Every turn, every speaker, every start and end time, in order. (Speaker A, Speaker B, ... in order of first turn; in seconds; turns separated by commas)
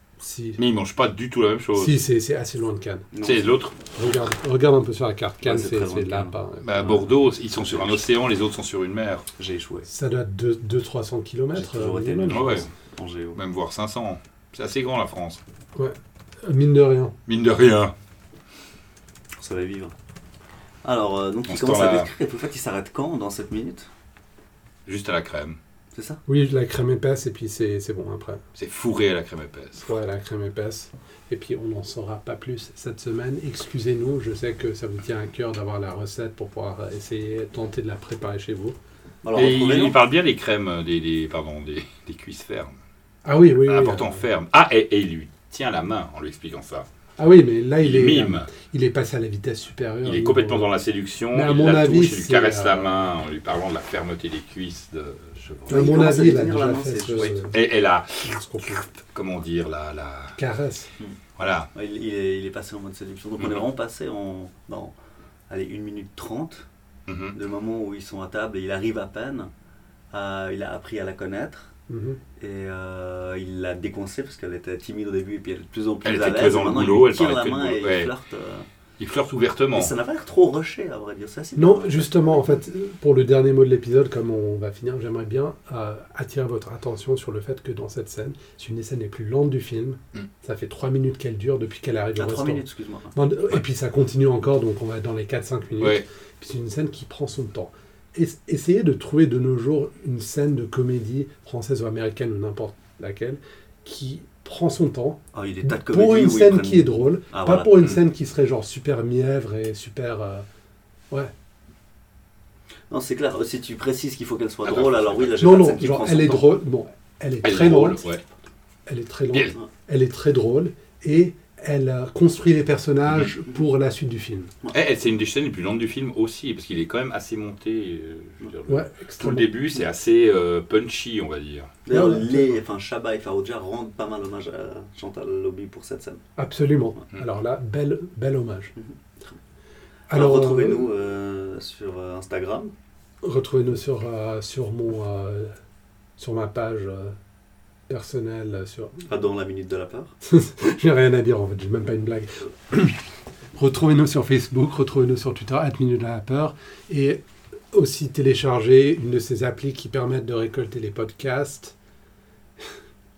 Speaker A: 0.2-0.6, Speaker B: 0.6-2.0, Speaker A: 1.8-3.1, Speaker C: 3.1-3.5, Speaker B: 3.2-3.8, Speaker A: 4.0-7.0, Speaker C: 5.4-6.3, Speaker B: 6.6-9.2, Speaker C: 9.4-9.9, Speaker A: 9.9-12.6, Speaker C: 11.5-13.4, Speaker B: 12.3-12.7, Speaker B: 13.3-15.4, Speaker A: 15.8-17.1, Speaker B: 17.3-17.9, Speaker C: 19.4-19.9, Speaker C: 20.8-23.9, Speaker B: 21.5-22.1, Speaker B: 24.9-25.6, Speaker C: 25.9-26.2, Speaker A: 26.3-28.4, Speaker B: 28.6-29.9, Speaker A: 29.8-38.8, Speaker C: 39.2-40.0, Speaker B: 39.3-42.8, Speaker A: 43.2-44.2, Speaker B: 43.6-46.9, Speaker A: 47.2-50.7, Speaker B: 47.8-48.5, Speaker B: 50.0-55.9, Speaker A: 51.3-53.0, Speaker C: 55.7-57.3, Speaker A: 55.7-57.6, Speaker B: 57.2-58.2, Speaker A: 58.2-58.8, Speaker B: 58.9-60.4, Speaker A: 60.4-60.9, Speaker B: 61.4-61.7, Speaker C: 61.7-64.9, Speaker C: 65.5-66.6, Speaker B: 67.1-67.3, Speaker C: 67.3-69.5, Speaker C: 70.1-71.7, Speaker A: 71.9-72.2, Speaker C: 72.4-78.7, Speaker B: 76.0-78.1, Speaker B: 79.0-79.9, Speaker C: 79.7-82.4, Speaker A: 81.5-92.6, Speaker C: 92.2-93.1, Speaker A: 93.1-110.4, Speaker C: 105.3-107.8, Speaker C: 112.9-116.5, Speaker B: 114.6-115.4, Speaker A: 115.4-118.1, Speaker B: 117.4-118.2, Speaker A: 118.9-124.5, Speaker B: 124.7-131.8, Speaker A: 128.7-129.5, Speaker C: 131.8-136.2, Speaker A: 131.9-132.6, Speaker A: 136.4-138.7, Speaker C: 138.8-139.3, Speaker A: 140.1-140.8, Speaker C: 140.1-142.7, Speaker A: 143.2-145.6, Speaker A: 146.2-147.2, Speaker A: 147.9-149.0, Speaker C: 149.1-150.1, Speaker A: 150.2-153.0, Speaker A: 153.6-157.2, Speaker A: 157.7-161.7